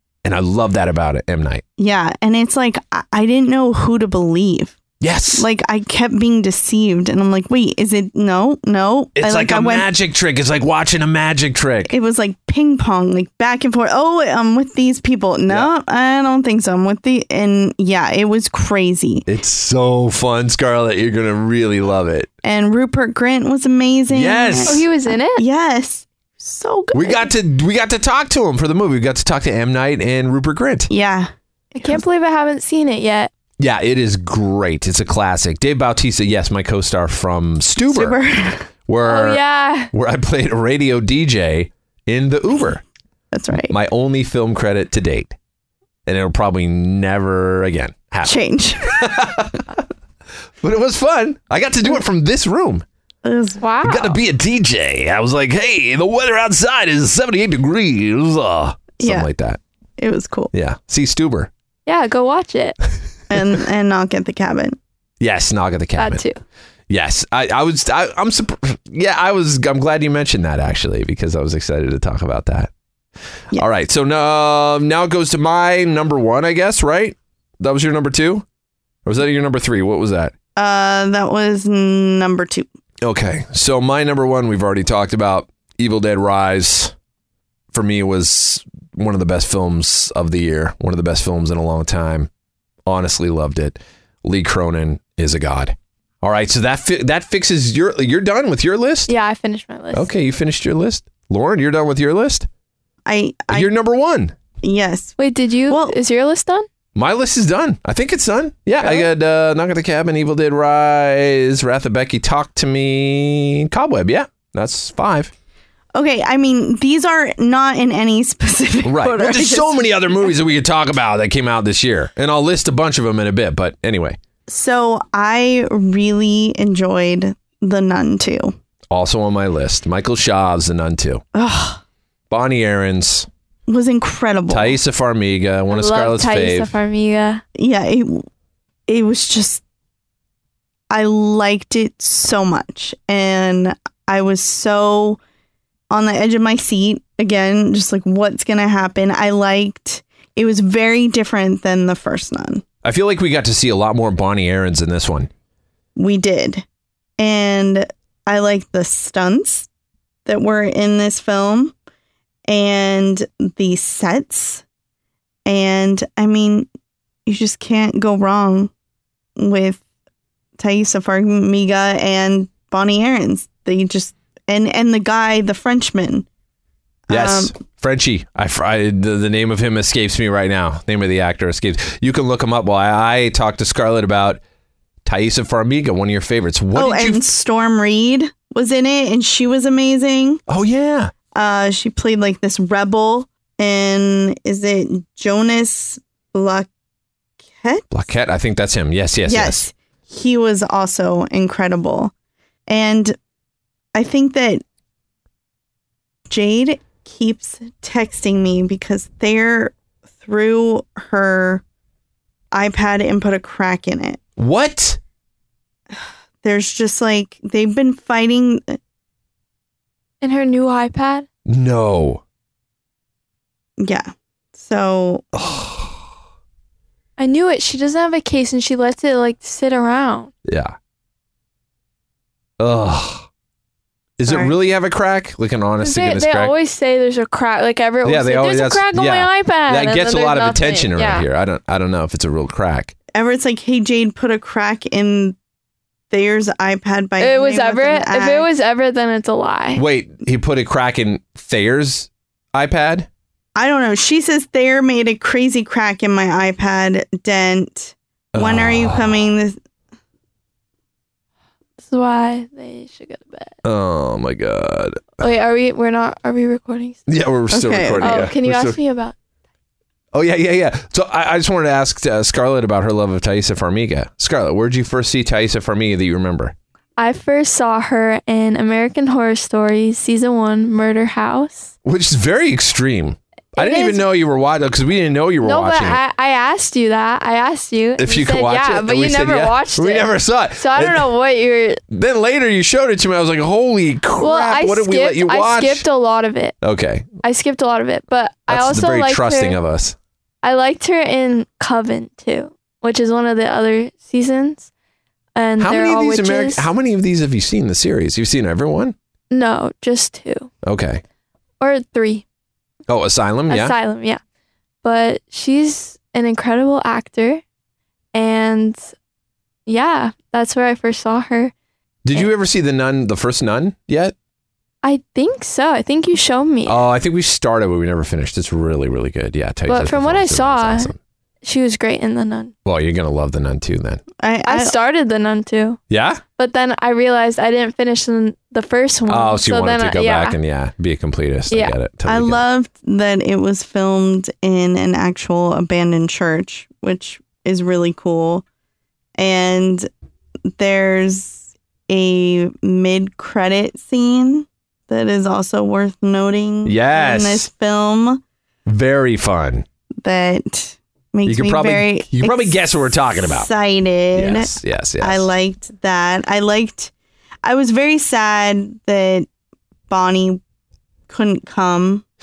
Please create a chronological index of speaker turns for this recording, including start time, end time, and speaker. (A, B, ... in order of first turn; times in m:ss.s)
0:00.2-0:01.6 A
0:01.8-0:04.8 B
0:05.0-0:05.5 A
0:05.3-0:09.9 B
0:09.2-0:11.9 A
0:11.9-0:19.2 B
0:19.3-0:22.3 A
0:22.4-0:27.3 B
0:24.1-0:24.8 A
0:24.6-0:25.4 C
0:26.9-0:30.9 A
0:30.9-0:32.0 B
0:31.7-0:33.3 C
0:33.6-0:38.2 A
0:37.8-0:38.7 B
0:38.9-0:39.4 A
0:39.0-0:39.9 C
0:39.9-0:42.8 A
0:43.3-0:43.7 B
0:43.7-0:45.3 A
0:46.0-0:49.8 A
0:48.2-0:49.0 B
0:50.6-0:52.8 A
0:53.2-0:53.6 B
0:53.6-0:54.2 C
0:53.8-0:59.6 A
0:59.0-0:59.3 B
1:00.0-1:00.5 B
1:00.5-1:01.5 A
1:01.8-1:02.8 C
1:03.3-1:04.8 B
1:05.2-1:06.2 A
1:06.0-1:06.4 C
1:06.9-1:12.7 A
1:13.5-1:18.4 A
1:19.0-1:20.3 A
1:20.6-1:22.7 B
1:23.0-1:26.9 A
1:27.7-1:32.3 A
1:32.8-1:39.1 A
1:39.1-1:40.1 C
1:39.9-1:42.5 A
1:43.0-1:43.7 B
1:43.5-1:44.3 A
1:44.6-1:45.2 B
1:45.2-1:46.7 C
1:45.7-1:46.0 B
1:46.9-1:55.3 A
1:55.9-1:59.8 B
1:58.8-2:04.2 A
2:04.5-2:08.5 B
2:08.9-2:11.2 A
2:11.3-2:11.8 B
2:12.3-2:13.3 A
2:13.7-2:14.8 B
2:14.5-2:16.7 A
2:15.7-2:17.4 C
2:17.6-2:18.2 B
2:18.9-2:19.6 B
2:20.9-2:25.2 B
2:25.9-2:32.6 B
2:32.8-2:35.3 A
2:36.0-2:36.6 B
2:37.2-2:39.7 B
2:40.2-2:41.7 B
2:42.5-2:44.6 B
2:45.4-2:46.7 B
2:47.2-2:48.7 B
2:49.4-2:49.8 B
2:50.6-2:56.2 B
2:57.1-2:57.5 B
2:57.1-3:04.4 A
3:05.0-3:07.3 A
3:06.7-3:10.4 B
3:10.5-3:11.1 A
3:11.3-3:16.7 B
3:17.5-3:18.0 B
3:17.9-3:19.6 A
3:19.2-3:22.1 B
3:22.7-3:23.2 B
3:23.9-3:24.6 B
3:26.3-3:31.6 B
3:32.5-3:34.2 B
3:34.4-3:35.0 A
3:35.9-3:38.8 B
3:40.2-3:41.2 C
3:41.4-3:42.2 A
3:43.8-3:45.2 B
3:45.3-3:46.0 A
3:47.2-3:50.3 C
3:50.4-3:50.8 A
3:52.6-3:53.3 A
3:54.2-3:56.5 A
3:54.2-3:54.5 B
3:55.8-4:01.2 C
3:58.0-4:02.9 A
4:03.1-4:05.4 B
4:06.1-4:08.5 B
4:07.2-4:09.8 C
4:09.7-4:13.1 A
4:13.5-4:19.6 B
4:18.3-4:19.1 A
4:21.8-4:23.5 C
4:23.6-4:25.2 A
4:25.2-4:27.0 C
4:27.1-4:28.8 A
4:27.5-4:28.3 B
4:28.0-4:29.1 C
4:30.1-4:36.5 A
4:37.0-4:41.7 C
4:41.8-4:46.0 A
4:43.6-4:44.0 C
4:45.4-4:51.8 C
4:48.0-4:51.1 A
4:51.9-4:55.8 A
4:54.2-4:56.6 C
4:56.6-4:57.1 A
4:57.2-4:59.6 C
4:58.5-5:00.0 A
5:00.4-5:04.7 C
5:05.4-5:06.7 C
5:05.6-5:08.9 A
5:09.3-5:10.5 C
5:10.6-5:11.0 A
5:11.6-5:12.2 C
5:12.9-5:13.7 A
5:13.5-5:14.2 C
5:14.8-5:17.4 C
5:18.1-5:18.9 C
5:19.7-5:21.5 C
5:22.0-5:24.1 A
5:24.8-5:26.8 C
5:26.6-5:31.0 A
5:29.7-5:32.5 C
5:32.6-5:34.0 A
5:34.2-5:34.7 B
5:34.4-5:35.8 C
5:35.9-5:36.2 A
5:36.4-5:40.4 C
5:39.1-5:42.4 A
5:41.5-5:41.7 C
5:42.1-5:48.4 B
5:49.2-5:49.9 B
5:50.5-5:58.2 B
5:56.6-5:57.5 A
5:58.6-5:59.6 A
6:00.0-6:06.9 B
6:01.2-6:03.5 A
6:04.1-6:05.3 A
6:07.4-6:09.3 B
6:09.9-6:10.4 B
6:11.1-6:12.0 B